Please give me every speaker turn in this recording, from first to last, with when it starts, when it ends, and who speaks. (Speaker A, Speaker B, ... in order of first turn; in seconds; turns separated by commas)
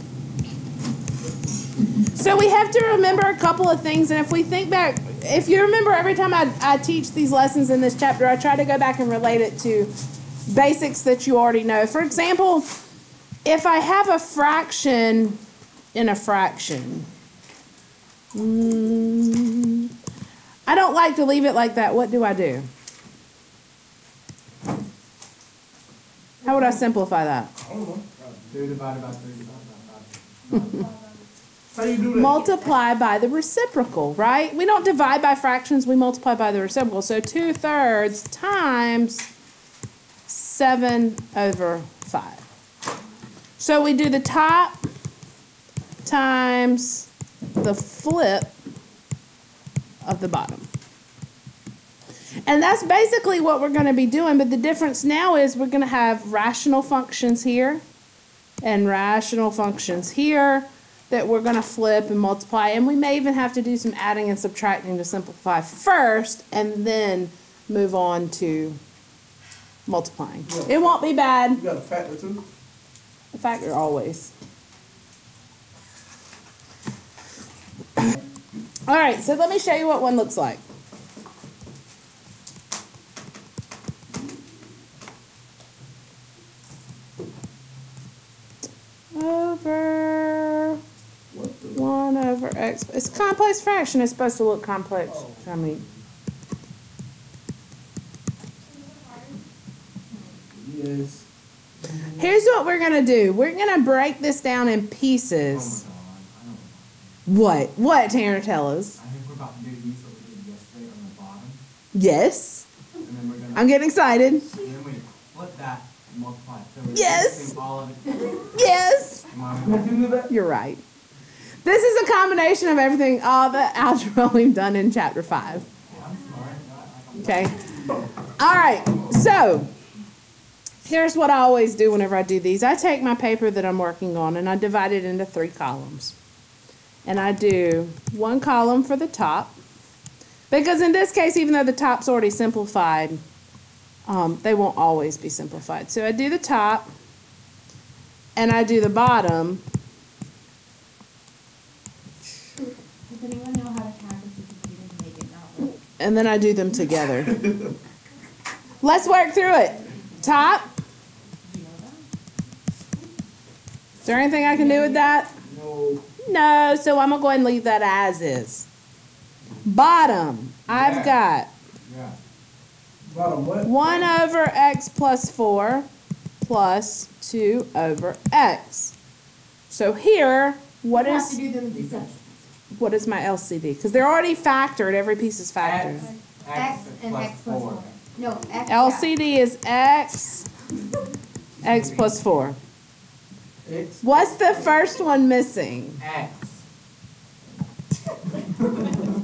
Speaker A: 2.0-9.9, Speaker A: 10.5-12.7, Speaker A: 13.4-15.4, Speaker A: 15.9-17.1, Speaker A: 18.3-19.9, Speaker A: 20.7-22.7, Speaker A: 26.4-27.5, Speaker B: 27.6-28.1, Speaker C: 28.2-30.9, Speaker B: 31.7-32.4, Speaker A: 32.1-39.3, Speaker D: 32.3-32.8, Speaker A: 40.3-42.4, Speaker A: 43.6-44.8, Speaker A: 46.0-48.5, Speaker A: 50.0-50.7, Speaker A: 52.5-57.8, Speaker A: 58.6-68.8, Speaker A: 69.9-71.6, Speaker B: 70.5-72.4, Speaker A: 73.3-74.3, Speaker A: 78.9-80.6, Speaker A: 89.1-90.8, Speaker B: 91.3-91.8, Speaker A: 91.8-95.8, Speaker C: 95.2-95.7, Speaker B: 100.5-101.3, Speaker B: 101.8-102.4, Speaker A: 102.2-105.8, Speaker C: 105.5-107.2, Speaker A: 107.3-109.0, Speaker C: 109.0-111.6, Speaker A: 111.9-112.7, Speaker C: 113.0-113.7, Speaker A: 113.5-114.5, Speaker C: 114.5-118.6, Speaker A: 116.9-117.6, Speaker A: 118.5-119.2, Speaker C: 119.3-120.1, Speaker B: 119.6-120.3, Speaker A: 120.3-120.8, Speaker A: 121.6-125.7, Speaker C: 125.9-128.0, Speaker A: 127.2-127.6, Speaker A: 128.4-129.7, Speaker A: 130.8-136.2, Speaker A: 137.1-139.6, Speaker A: 140.5-143.2, Speaker A: 144.1-146.9, Speaker A: 148.4-149.6, Speaker D: 153.1-155.8, Speaker A: 156.0-157.4, Speaker A: 158.8-160.7, Speaker D: 159.9-160.6, Speaker D: 161.4-162.1, Speaker A: 164.0-165.3, Speaker D: 164.5-165.1, Speaker B: 165.4-166.0, Speaker A: 166.2-168.7, Speaker A: 169.7-171.5, Speaker C: 170.7-171.2, Speaker C: 171.9-172.2, Speaker B: 173.0-173.7, Speaker A: 173.7-175.9, Speaker A: 176.4-179.0, Speaker A: 179.7-181.4, Speaker D: 180.9-182.2, Speaker C: 181.7-182.0, Speaker A: 182.7-186.1, Speaker C: 185.6-187.9, Speaker D: 186.0-189.1, Speaker A: 188.7-190.5, Speaker C: 191.6-192.2, Speaker A: 191.6-192.6, Speaker B: 193.6-194.0, Speaker A: 194.0-196.0, Speaker C: 196.0-196.6